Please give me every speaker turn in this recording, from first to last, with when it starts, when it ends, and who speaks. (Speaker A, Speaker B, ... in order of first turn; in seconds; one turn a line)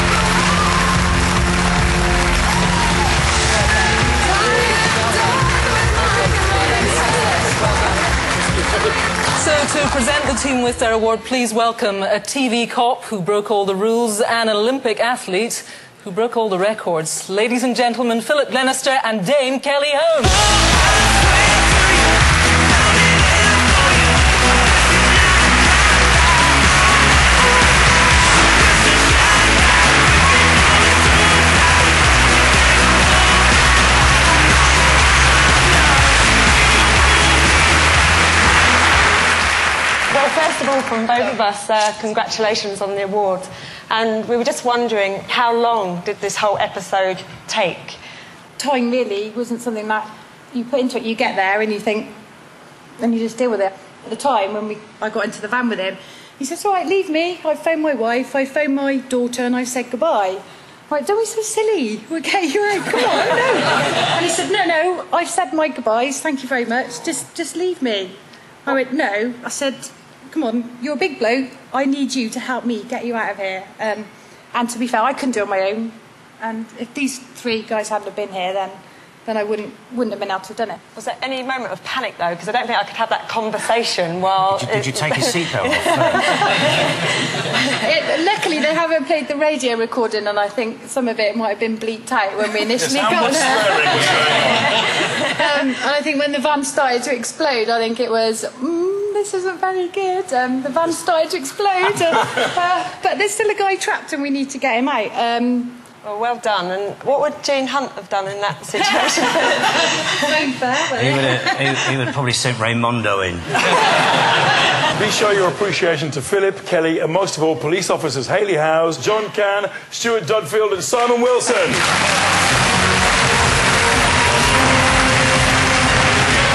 Speaker A: 9.3-20.5
Speaker B: 40.1-48.0
Speaker C: 48.6-52.1
Speaker C: 53.0-80.8
Speaker B: 81.0-86.6
Speaker D: 84.4-86.3
Speaker C: 87.7-105.8
Speaker E: 92.7-94.7
Speaker B: 106.0-110.1
Speaker C: 110.2-111.9
Speaker D: 111.0-113.5
Speaker E: 114.9-121.8